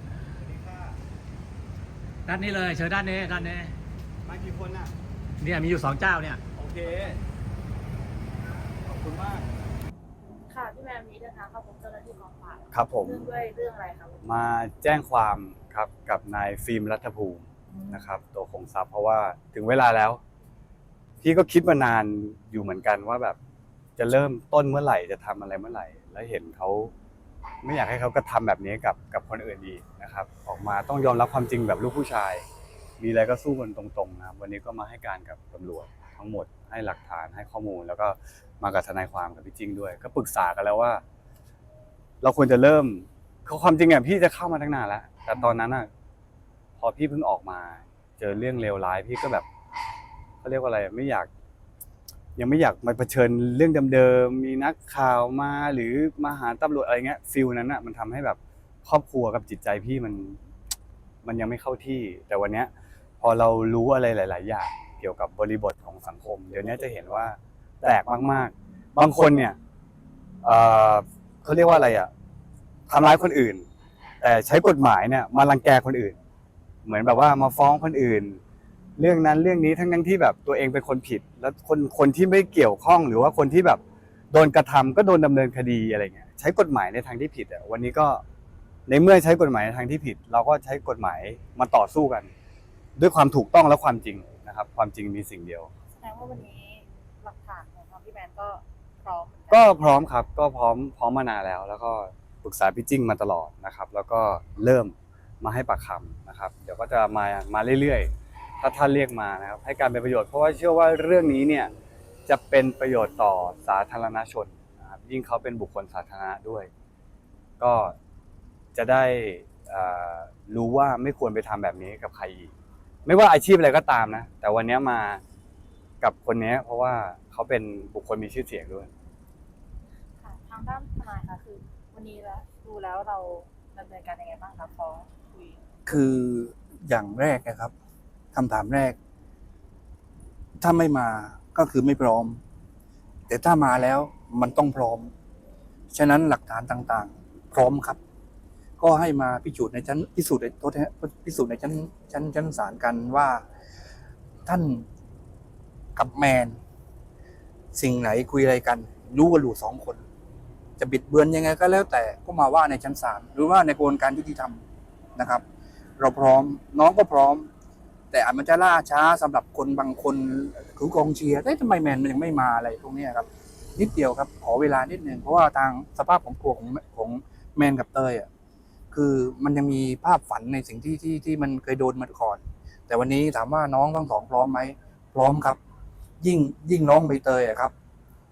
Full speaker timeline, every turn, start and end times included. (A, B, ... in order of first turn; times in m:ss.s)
0:00.3-0:01.0 A
0:02.3-0:03.7 B
0:04.2-0:05.0 A
0:05.4-0:06.4 B
0:06.6-0:07.2 A
0:08.8-0:09.4 A
0:10.2-0:14.2 C
0:12.7-0:13.2 A
0:14.2-0:20.2 A
0:21.2-0:23.4 A
0:24.0-0:26.9 A
0:27.6-0:32.4 A
0:33.0-0:41.0 A
0:42.2-0:45.9 A
0:46.8-0:49.5 A
0:50.4-0:51.3 A
0:52.4-1:00.4 A
1:01.2-1:09.6 A
1:10.4-1:12.1 A
1:12.9-1:13.7 A
1:14.2-1:16.2 A
1:16.8-1:18.4 A
1:19.0-1:28.2 A
1:28.9-1:32.3 A
1:33.0-1:35.7 A
1:36.0-1:39.8 C
1:39.5-1:51.7 A
1:52.3-1:56.7 A
1:57.6-1:58.0 A
1:58.8-2:02.5 A
2:03.0-2:05.2 A
2:06.0-2:08.9 A
2:10.2-2:15.6 C
2:15.9-2:17.7 D
2:18.3-2:19.0 D
2:20.6-2:22.4 D
2:23.3-2:25.1 D
2:25.9-2:28.0 D
2:28.8-2:33.4 D
2:34.5-2:34.8 D
2:36.0-2:36.6 D
2:37.7-2:40.0 D
2:40.8-2:44.6 D
2:45.2-2:45.4 D
2:46.0-2:47.5 D
2:48.1-2:58.3 D
2:58.9-3:05.6 D
3:06.2-3:07.7 D